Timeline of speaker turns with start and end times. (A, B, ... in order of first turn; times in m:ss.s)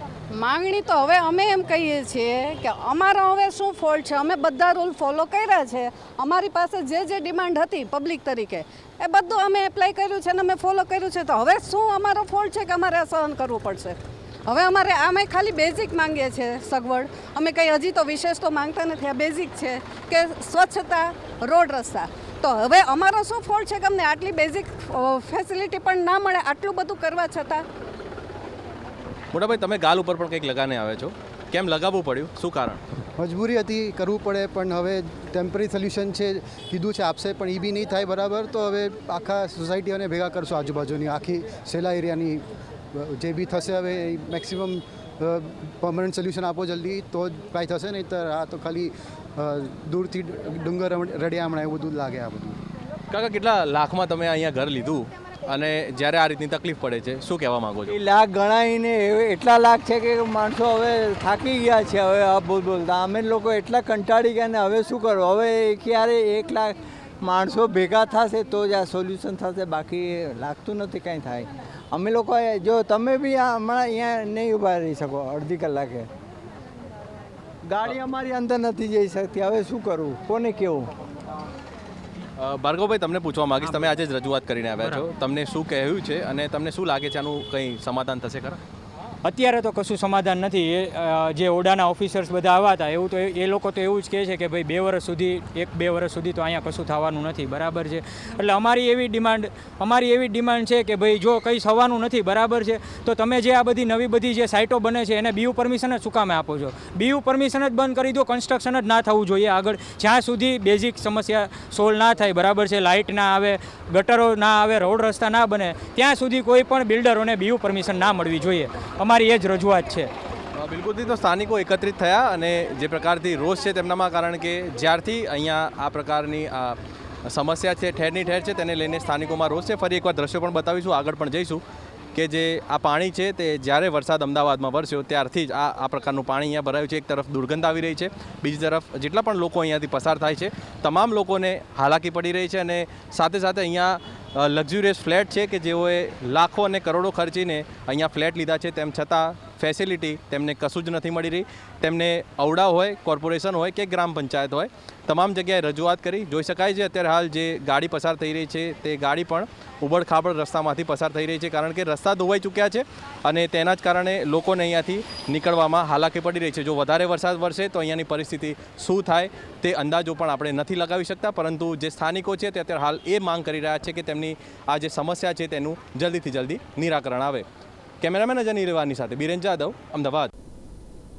0:00.3-0:27.7 A
0:29.3-0:32.8 B
0:33.2-0:42.4 C
0:43.0-0:52.6 C
0:53.1-0:58.0 B
0:57.9-1:16.1 D
1:17.7-1:20.9 D
1:22.4-1:28.6 B
1:29.2-2:00.1 E
2:00.6-2:11.6 B
2:12.1-2:57.4 B
2:58.0-3:00.3 B